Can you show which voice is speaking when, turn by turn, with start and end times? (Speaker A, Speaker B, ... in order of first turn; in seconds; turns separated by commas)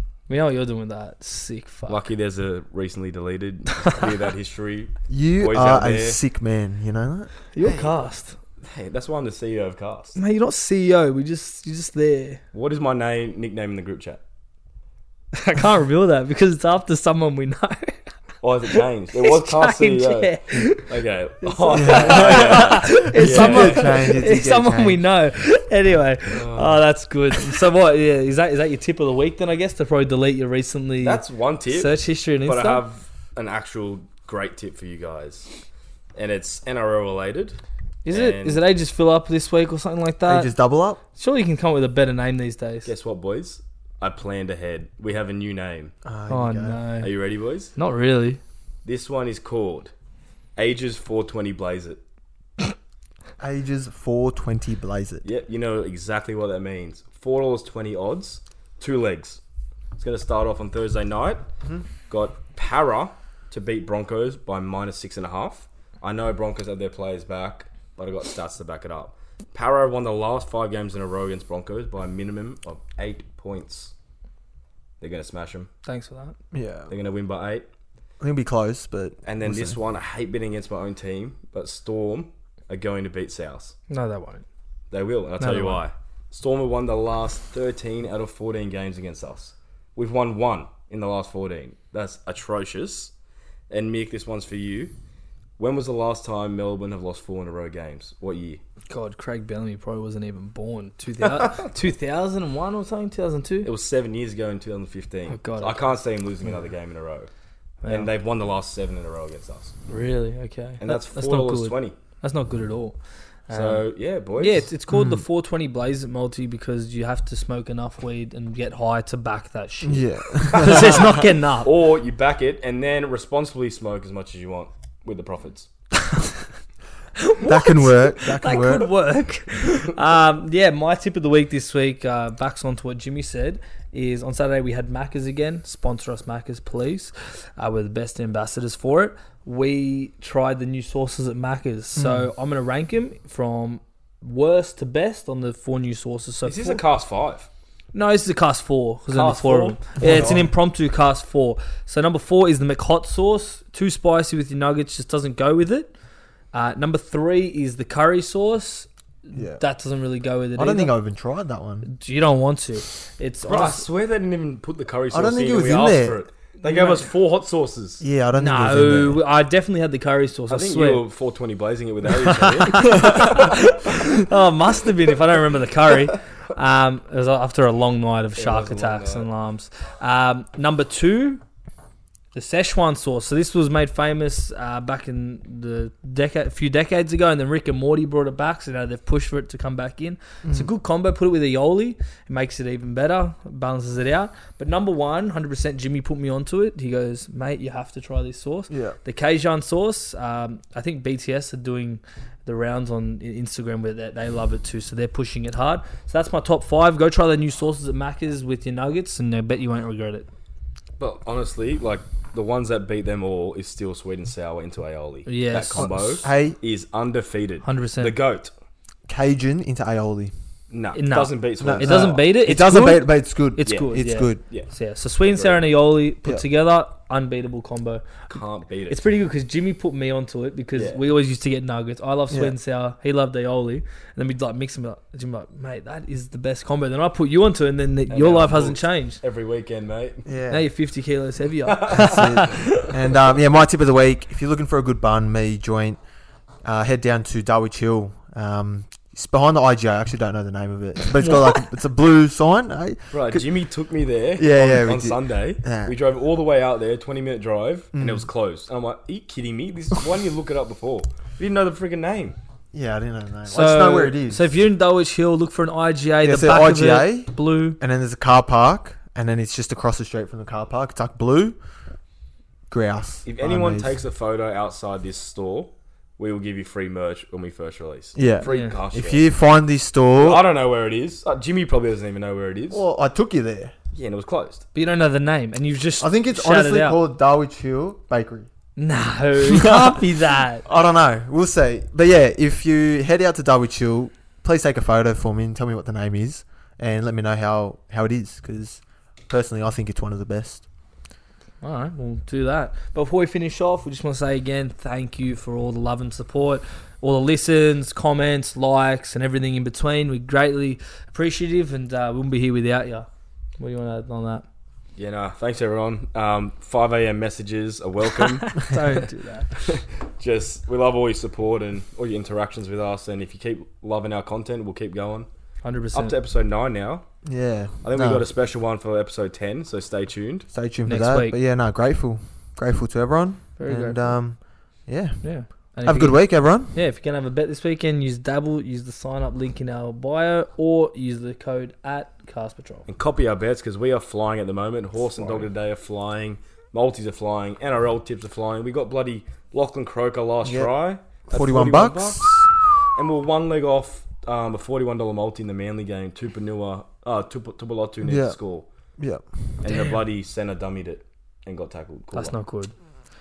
Speaker A: 0.3-2.0, Speaker B: 1.9-6.2, Speaker C: 5.1-7.3, Speaker A: 7.5-8.4, Speaker B: 8.6-10.2, Speaker A: 10.2-12.4, Speaker B: 12.5-14.2, Speaker A: 15.3-18.0, Speaker B: 18.4-24.1, Speaker A: 18.7-20.9, Speaker A: 21.4-32.8, Speaker C: 21.7-25.0, Speaker B: 26.3-26.8, Speaker B: 31.0-35.5, Speaker B: 36.1-37.6, Speaker A: 38.0-40.5, Speaker B: 38.1-38.6, Speaker C: 40.3-41.0, Speaker A: 41.1-42.9, Speaker B: 42.8-45.9, Speaker C: 46.0-46.8, Speaker A: 46.3-47.1, Speaker B: 47.0-47.7, Speaker A: 47.7-48.4, Speaker B: 48.8-49.9, Speaker B: 50.5-52.0, Speaker C: 53.4-55.2, Speaker B: 55.2-59.4, Speaker B: 60.0-61.5, Speaker B: 62.1-73.9, Speaker B: 75.0-75.7, Speaker A: 75.8-76.3, Speaker C: 76.5-76.9, Speaker B: 76.9-77.7, Speaker C: 78.2-79.8, Speaker B: 79.2-83.7, Speaker A: 83.9-84.4, Speaker B: 84.9-93.1, Speaker A: 85.4-85.8, Speaker B: 93.7-94.9, Speaker B: 95.6-98.6, Speaker A: 98.9-103.7, Speaker B: 103.6-107.3, Speaker A: 105.3-105.9, Speaker A: 107.8-108.1, Speaker B: 107.9-109.7, Speaker A: 109.9-113.0, Speaker B: 110.8-112.0, Speaker A: 113.5-113.8, Speaker B: 113.5-114.7, Speaker A: 114.4-121.7, Speaker C: 114.9-115.2, Speaker C: 119.8-121.2, Speaker B: 120.8-125.7, Speaker A: 126.0-126.3, Speaker A: 127.2-146.8, Speaker C: 127.4-128.9, Speaker C: 141.9-142.3, Speaker B: 146.4-147.5, Speaker A: 147.9-155.9, Speaker B: 149.1-149.8, Speaker C: 150.0-150.5, Speaker A: 156.5-160.9, Speaker C: 159.3-159.6, Speaker C: 160.6-161.9, Speaker A: 161.8-163.8, Speaker B: 163.5-168.0, Speaker C: 165.1-166.2, Speaker A: 166.6-167.1, Speaker C: 168.0-169.2, Speaker A: 168.4-171.0, Speaker B: 170.5-173.6, Speaker A: 172.2-181.4, Speaker B: 178.4-179.3, Speaker A: 182.3-210.3, Speaker C: 190.4-190.7, Speaker C: 198.7-199.0, Speaker B: 211.0-218.5, Speaker A: 215.2-215.9, Speaker C: 215.8-216.6, Speaker A: 217.6-218.2, Speaker C: 219.1-220.3, Speaker B: 220.7-222.3, Speaker A: 220.9-228.0, Speaker C: 221.6-224.4, Speaker B: 223.7-223.9, Speaker B: 225.2-225.6, Speaker B: 228.3-229.1, Speaker A: 228.9-239.2, Speaker B: 238.1-240.2, Speaker C: 240.2-240.7, Speaker A: 240.5-242.9, Speaker B: 241.7-242.5, Speaker C: 241.9-246.0, Speaker C: 246.6-253.5, Speaker A: 251.1-251.7, Speaker B: 253.1-262.4, Speaker C: 254.4-256.0, Speaker C: 257.9-258.3, Speaker C: 262.7-264.5, Speaker A: 263.5-267.8, Speaker C: 266.2-271.6, Speaker C: 272.7-273.9, Speaker B: 273.2-279.2, Speaker C: 278.1-280.4, Speaker A: 278.4-278.7, Speaker B: 280.1-282.8, Speaker C: 282.7-283.7, Speaker B: 283.9-284.6, Speaker A: 284.7-287.0, Speaker C: 286.0-288.5, Speaker A: 288.8-290.6, Speaker C: 289.5-290.0, Speaker C: 290.6-300.6, Speaker A: 301.6-313.1, Speaker A: 313.6-314.4, Speaker B: 315.0-318.8, Speaker A: 318.5-319.8, Speaker B: 319.6-325.3, Speaker A: 325.6-326.1, Speaker B: 325.9-327.1, Speaker C: 327.2-328.2, Speaker B: 327.8-330.5, Speaker C: 330.5-335.2, Speaker A: 330.9-331.4, Speaker A: 333.6-334.2, Speaker A: 335.2-342.9, Speaker C: 335.8-336.7, Speaker B: 342.9-358.7, Speaker C: 345.2-345.5, Speaker C: 350.4-350.7, Speaker C: 351.3-352.5, Speaker C: 358.0-358.4, Speaker C: 359.0-359.2, Speaker B: 359.6-362.4, Speaker A: 362.1-362.7